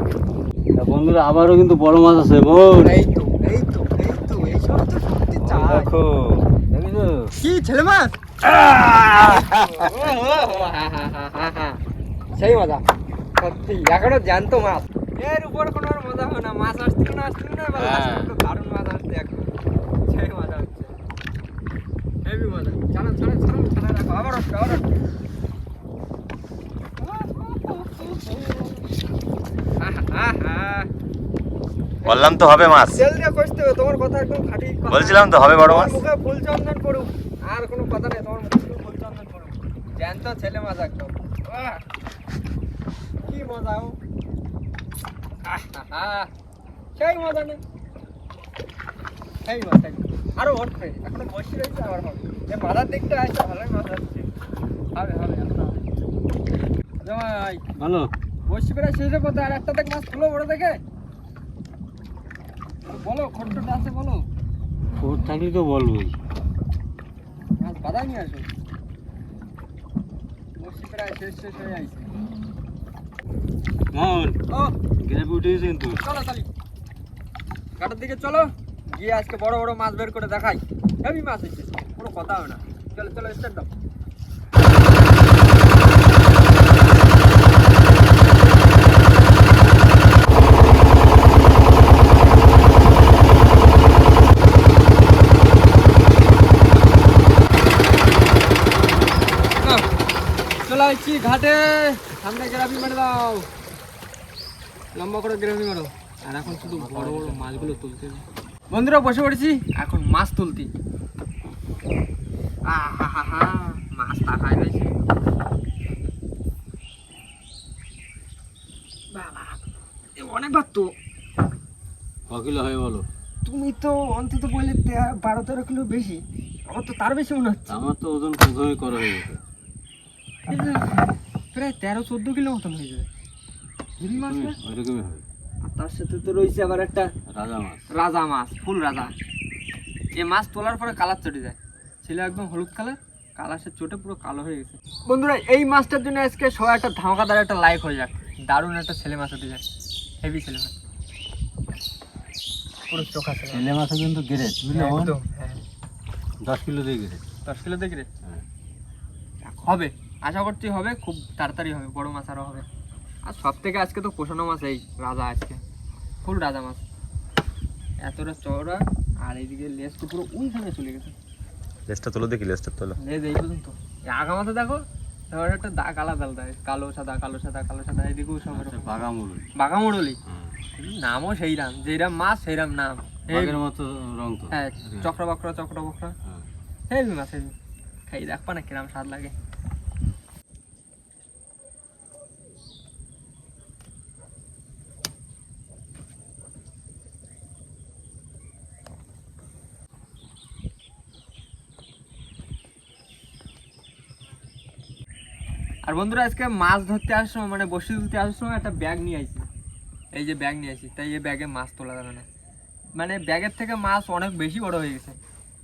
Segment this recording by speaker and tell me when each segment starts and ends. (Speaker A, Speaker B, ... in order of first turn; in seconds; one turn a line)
Speaker A: 0.8-2.9
Speaker B: 2.7-5.9
Speaker A: 5.4-7.3
Speaker B: 7.4-8.2
Speaker A: 8.4-10.0
Speaker B: 9.1-11.8
Speaker B: 12.3-12.8
Speaker B: 13.4-19.5
Speaker A: 17.7-18.3
Speaker B: 20.0-21.0
Speaker B: 22.2-24.9
Speaker B: 27.0-28.9
Speaker B: 29.8-30.9
Speaker B: 32.0-41.8
Speaker C: 32.1-33.0
Speaker C: 34.9-36.0
Speaker B: 43.3-44.0
Speaker B: 45.5-46.3
Speaker B: 47.0-47.6
Speaker B: 49.5-54.3
Speaker B: 55.0-55.9
Speaker B: 57.0-57.6
Speaker A: 57.8-58.1
Speaker B: 58.5-60.8
Speaker B: 62.9-64.3
Speaker A: 65.0-66.1
Speaker B: 67.6-68.5
Speaker B: 70.6-72.1
Speaker A: 73.9-74.4
Speaker A: 75.0-76.0
Speaker B: 76.0-76.5
Speaker B: 77.8-83.7
Speaker B: 99.6-99.9
Speaker B: 100.7-103.5
Speaker B: 104.9-110.7
Speaker A: 106.4-107.9
Speaker B: 112.7-115.0
Speaker B: 119.1-119.6
Speaker B: 120.2-120.9
Speaker A: 122.3-123.1
Speaker B: 123.5-127.8
Speaker A: 127.7-129.4
Speaker B: 130.5-133.1
Speaker B: 134.0-134.6
Speaker A: 134.0-135.2
Speaker B: 135.6-137.1
Speaker A: 137.3-137.9
Speaker B: 137.9-139.1
Speaker B: 140.2-149.6
Speaker B: 150.2-150.7
Speaker B: 152.9-153.7
Speaker A: 153.5-155.2
Speaker B: 154.7-155.6
Speaker A: 156.4-157.2
Speaker B: 157.5-158.1
Speaker B: 159.4-162.7
Speaker B: 163.3-165.6
Speaker B: 166.2-166.8
Speaker B: 168.0-171.1
Speaker C: 171.9-172.9
Speaker B: 173.0-179.0
Speaker A: 178.4-179.5
Speaker B: 179.6-180.2
Speaker A: 180.3-180.6
Speaker B: 180.8-183.6
Speaker A: 183.3-185.1
Speaker B: 184.5-186.2
Speaker B: 186.9-187.5
Speaker B: 188.1-189.3
Speaker B: 205.8-209.5
Speaker B: 210.1-212.3
Speaker B: 213.0-215.2